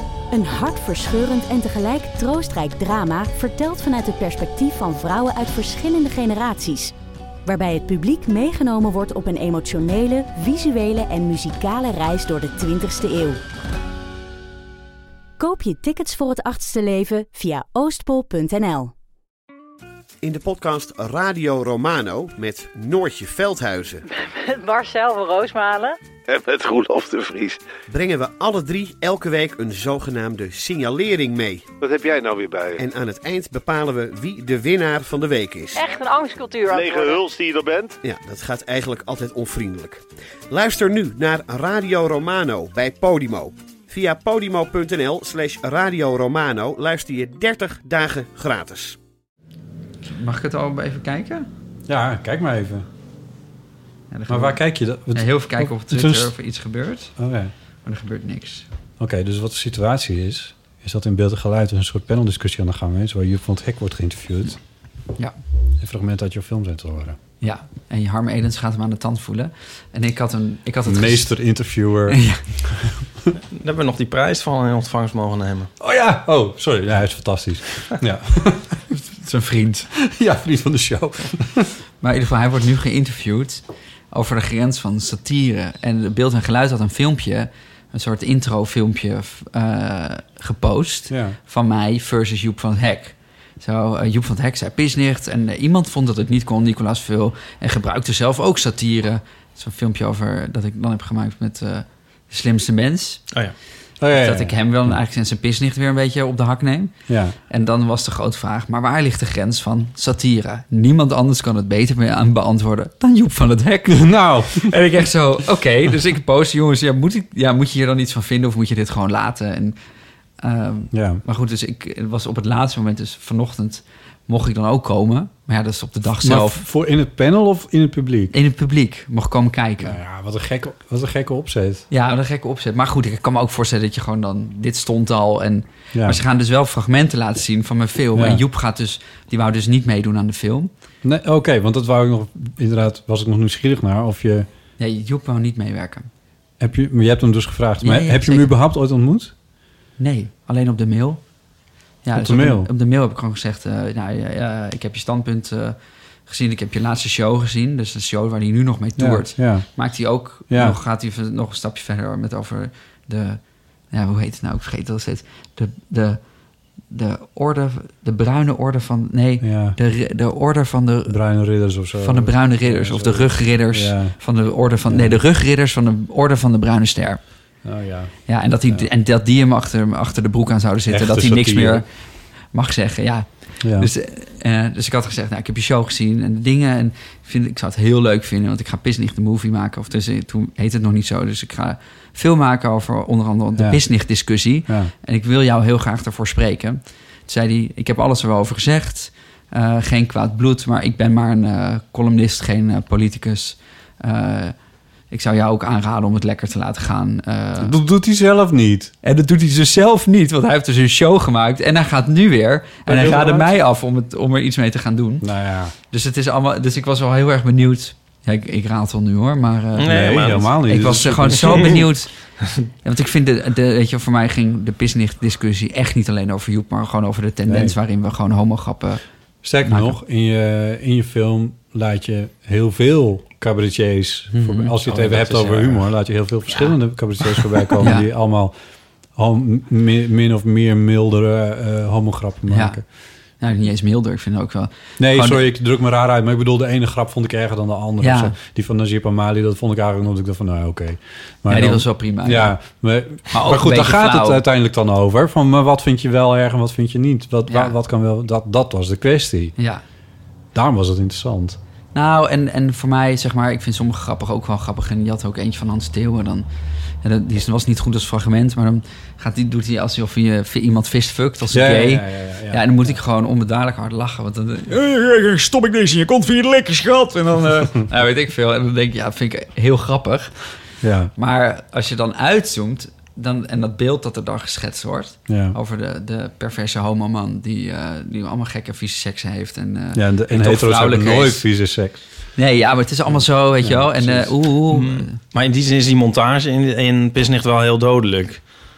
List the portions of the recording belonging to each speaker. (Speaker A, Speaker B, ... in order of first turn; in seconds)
Speaker A: 0.3-6.9, 7.5-13.4, 15.4-18.9
Speaker B: 20.2-24.0, 27.9-31.6, 32.8-35.8, 38.0-49.0
Speaker C: 24.1-26.0, 35.7-37.2
Speaker D: 26.3-27.6, 31.8-32.8, 36.7-38.0
Speaker E: 50.1-51.5, 54.1-54.6, 55.1-57.1, 57.8-58.6, 67.4-71.3, 72.1-72.4, 78.9-79.9, 82.0-103.2, 104.1-106.9, 107.5-119.8, 120.4-126.6, 128.3-130.0, 131.9-140.7, 144.8-146.1, 147.8-148.5, 150.0-151.2, 152.0-155.8, 156.3-166.2, 166.9-171.2, 172.0-177.2, 178.3-181.8, 182.5-204.5, 205.1-207.7, 209.0-215.3, 215.8-222.1, 222.8-229.0, 229.6-229.9, 234.3-235.8, 237.8-238.1, 242.5-242.8, 243.4-245.4, 248.0-248.3, 251.5-252.5, 253.3-254.4, 257.5-257.7, 259.6-259.8, 261.9-266.5, 267.0-280.3, 281.1-291.4, 292.4-295.1
Speaker F: 51.9-52.9, 54.3-56.3, 57.2-57.5, 59.0-64.6, 65.8-67.2, 70.8-73.3, 75.8-78.8, 79.9-81.7, 91.1-91.4, 104.0-104.9, 107.1-107.4, 113.9-114.7, 120.9-121.2, 126.2-128.3, 129.8-131.8, 135.9-136.2, 138.1-138.4, 141.0-144.5, 146.6-149.3, 152.1-152.7, 159.0-159.7, 160.5-160.8, 169.4-169.8, 171.1-174.2, 174.9-175.2, 177.6-178.2, 180.9-181.8, 183.6-183.9, 194.7-194.9, 207.6-208.9, 212.8-213.6, 215.2-215.7, 219.8-221.8, 227.5-227.8, 229.4-238.5, 239.2-242.8, 245.0-259.5, 260.5-261.6, 271.5-273.0, 280.8-281.1, 285.3-285.6, 289.9-292.0, 293.1-294.3
Speaker G: 73.5-75.7, 219.8-220.5, 294.7-298.4